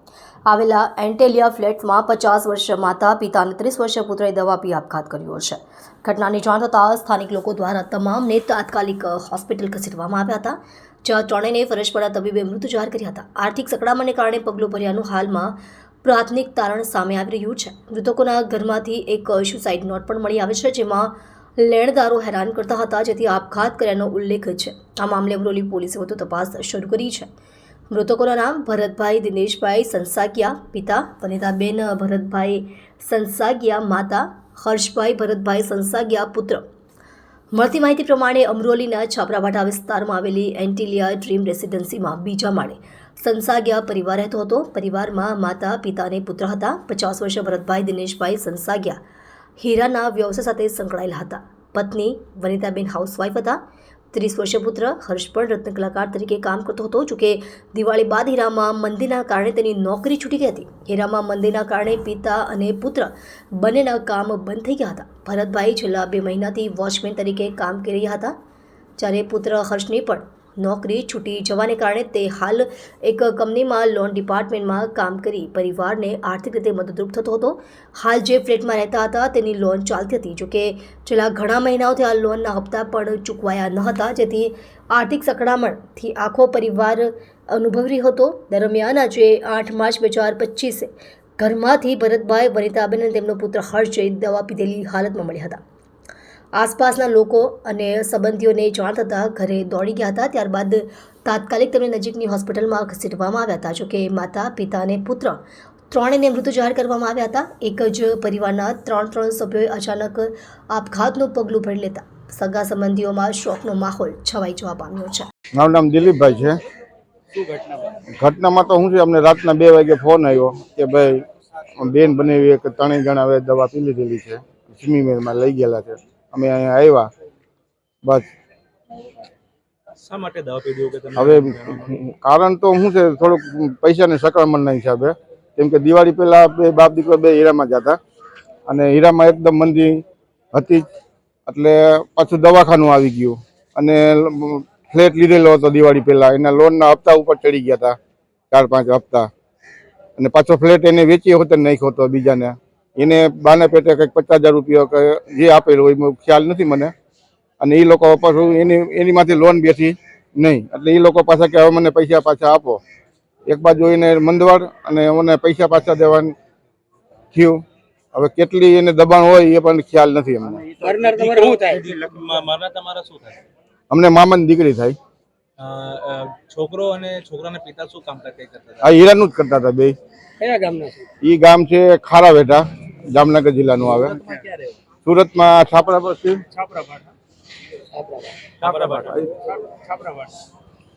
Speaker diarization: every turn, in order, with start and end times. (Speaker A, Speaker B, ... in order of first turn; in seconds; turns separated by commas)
Speaker A: 0.5-27.3, Speaker A: 27.9-36.6, Speaker A: 37.5-49.0, Speaker A: 49.6-53.6, Speaker A: 54.1-68.3, Speaker A: 69.0-95.6, Speaker A: 96.5-105.4, Speaker A: 105.9-115.3, Speaker B: 115.5-116.6, Speaker C: 117.3-117.9, Speaker B: 118.1-121.2, Speaker B: 121.8-127.1, Speaker C: 130.0-131.9, Speaker B: 131.2-138.0, Speaker B: 138.7-140.0, Speaker B: 140.5-140.8, Speaker B: 141.4-147.9, Speaker B: 148.5-149.3, Speaker B: 150.2-156.9, Speaker B: 157.6-162.8, Speaker B: 163.5-166.3, Speaker B: 167.3-167.6, Speaker B: 168.1-170.6, Speaker D: 170.8-172.0, Speaker C: 170.8-173.4, Speaker B: 173.9-174.9, Speaker C: 175.6-178.9, Speaker B: 178.8-179.9, Speaker D: 180.4-181.1, Speaker B: 181.2-184.2, Speaker C: 184.0-184.6, Speaker B: 185.0-186.4, Speaker C: 186.5-187.0, Speaker D: 187.9-188.5, Speaker C: 188.6-190.3